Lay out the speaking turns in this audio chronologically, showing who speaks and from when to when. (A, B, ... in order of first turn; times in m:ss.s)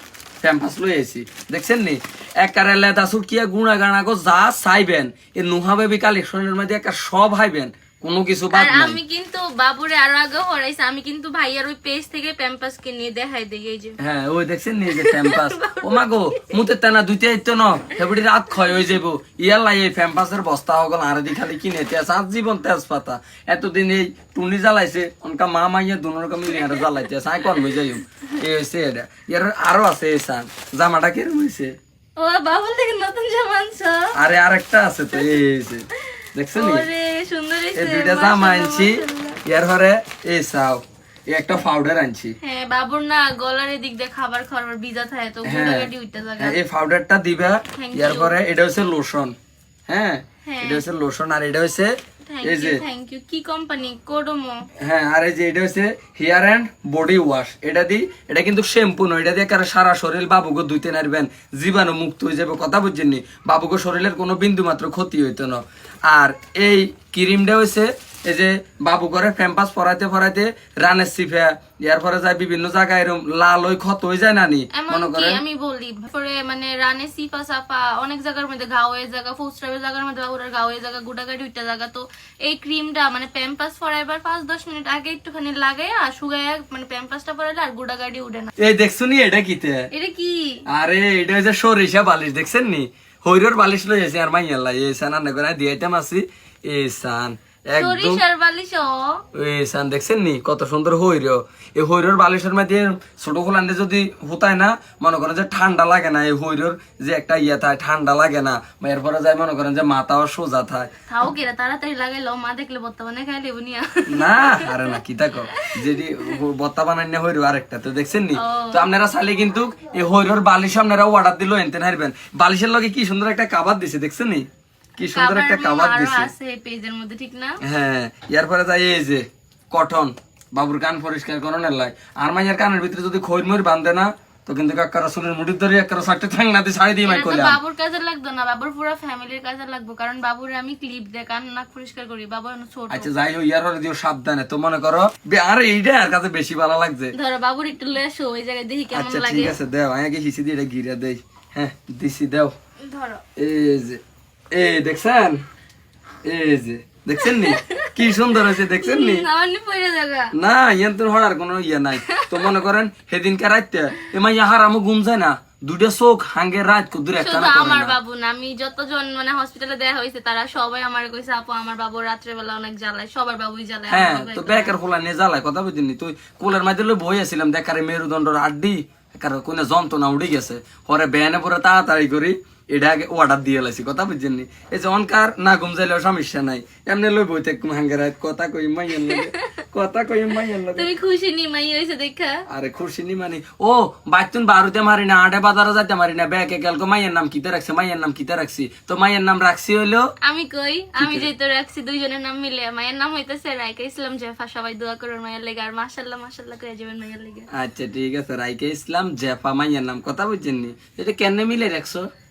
0:00.4-0:09.0 A
0:08.5-0:14.0 B
0:14.0-0:31.8 A
0:14.9-0:16.6 B
0:32.2-0:34.1 B
0:34.2-0:36.9 A
0:36.6-0:39.4 B
0:37.8-0:42.4 A
0:42.4-0:46.6 B
0:45.4-0:49.3 A
0:47.7-0:48.3 B
0:49.9-0:52.8 A
0:50.4-0:50.8 B
0:52.3-0:54.6 B
0:54.8-1:15.4 A
1:14.7-1:28.5 B
1:28.6-1:29.9 A
1:29.9-1:30.6 B
1:30.7-1:38.2 A
1:37.8-1:39.2 B
1:39.3-1:50.9 A
1:51.1-1:55.0 B
1:54.1-2:04.5 A
1:55.5-1:56.4 B
1:58.4-1:58.9 B
2:05.0-2:06.3 A
2:05.0-2:07.6 B
2:07.6-2:17.6 A
2:17.0-2:23.1 B
2:22.9-2:27.2 A
2:27.1-2:29.6 B
2:28.9-2:32.5 A
2:32.8-2:33.2 B
2:33.4-2:34.0 A
2:34.5-2:35.4 A
2:36.3-2:39.3 A
2:37.2-2:40.3 B
2:40.3-2:48.0 A
2:42.0-2:42.5 B
2:47.2-2:54.8 B
2:53.9-3:10.9 A
3:09.0-3:09.5 B
3:10.7-3:12.4 B
3:12.5-3:20.1 A
3:20.2-3:27.5 B
3:21.0-3:21.3 A
3:27.5-3:32.1 A